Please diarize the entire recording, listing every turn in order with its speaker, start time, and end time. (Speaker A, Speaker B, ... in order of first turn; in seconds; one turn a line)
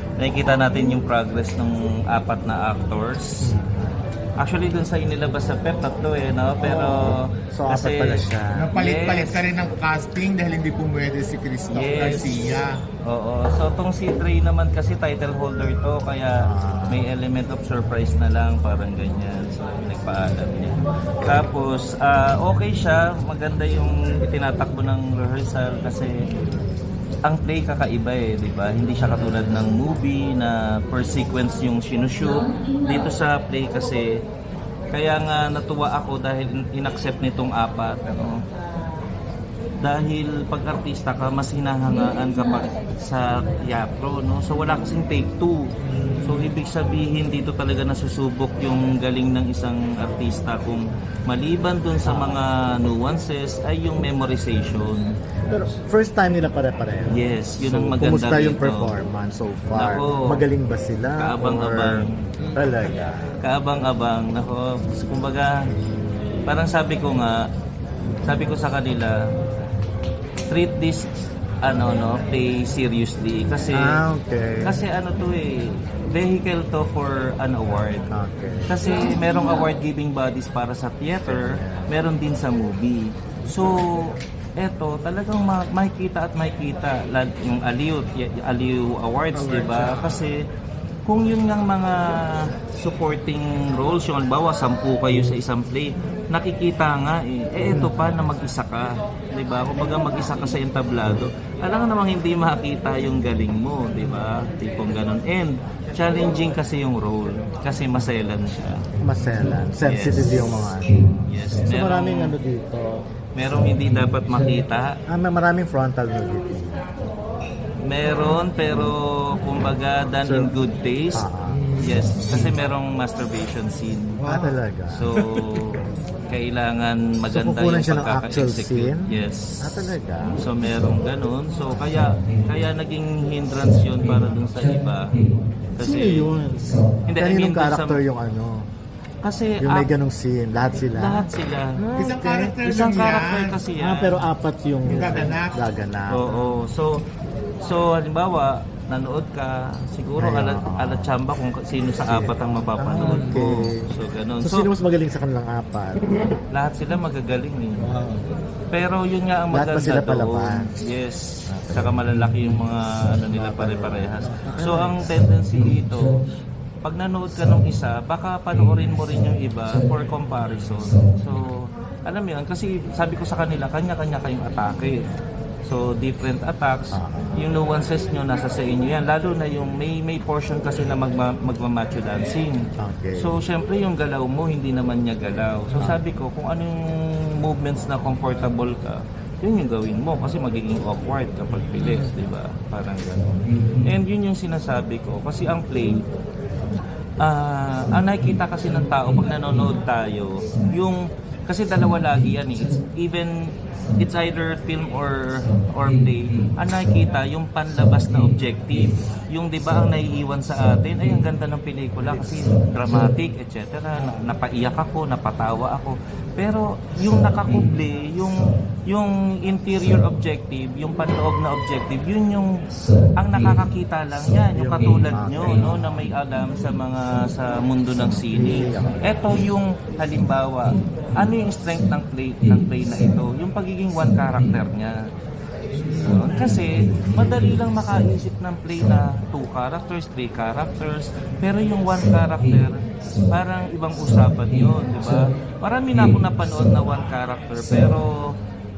Speaker A: 0.2-3.5
Speaker B: 3.4-3.9
Speaker A: 4.4-8.2
Speaker B: 6.6-8.7
Speaker C: 8.6-12.8
Speaker A: 8.7-9.4
Speaker A: 11.7-12.3
Speaker A: 13.1-26.1
Speaker B: 16.4-17.1
Speaker A: 27.2-34.1
Speaker A: 34.9-38.4
Speaker A: 39.8-45.7
Speaker A: 46.2-55.0
Speaker B: 52.0-52.4
Speaker B: 55.5-63.3
Speaker A: 57.1-59.0
Speaker A: 59.8-60.4
Speaker A: 61.2-62.2
Speaker A: 63.4-65.6
Speaker B: 65.7-66.0
Speaker A: 66.5-67.4
Speaker A: 68.2-69.2
Speaker A: 70.5-71.1
Speaker A: 71.6-74.0
Speaker B: 73.7-74.7
Speaker A: 74.6-78.1
Speaker B: 78.1-78.8
Speaker A: 78.7-90.4
Speaker B: 81.2-81.9
Speaker C: 89.7-90.0
Speaker A: 91.1-108.9
Speaker B: 109.0-112.9
Speaker A: 109.8-110.4
Speaker A: 111.2-112.3
Speaker A: 113.3-115.0
Speaker B: 115.1-116.8
Speaker A: 117.9-121.3
Speaker B: 120.2-120.5
Speaker B: 121.2-121.6
Speaker C: 121.5-122.5
Speaker A: 121.8-124.1
Speaker C: 124.2-124.6
Speaker B: 124.3-125.1
Speaker A: 124.9-125.7
Speaker C: 125.2-125.7
Speaker A: 126.3-129.8
Speaker B: 127.3-129.1
Speaker B: 129.6-130.4
Speaker A: 130.4-135.2
Speaker A: 135.7-136.3
Speaker B: 135.8-138.7
Speaker A: 137.1-138.0
Speaker A: 139.2-139.9
Speaker B: 139.6-141.3
Speaker A: 140.9-141.7
Speaker B: 141.8-142.6
Speaker C: 142.0-143.6
Speaker A: 142.6-144.2
Speaker B: 143.8-146.6
Speaker C: 144.8-145.6
Speaker A: 146.1-147.0
Speaker A: 147.6-154.7
Speaker B: 150.2-151.1
Speaker B: 152.0-153.8
Speaker B: 154.4-156.0
Speaker A: 156.5-157.9
Speaker B: 157.9-158.2
Speaker A: 158.7-166.2
Speaker B: 159.5-160.7
Speaker B: 161.5-162.0
Speaker B: 163.3-165.1
Speaker A: 166.8-175.0
Speaker A: 175.7-182.6
Speaker B: 176.9-177.4
Speaker B: 182.8-183.3
Speaker A: 183.2-186.8
Speaker A: 187.4-196.0
Speaker A: 197.2-203.3
Speaker A: 204.0-222.5
Speaker A: 223.2-235.0
Speaker B: 224.6-225.8
Speaker B: 228.3-229.2
Speaker A: 236.0-248.3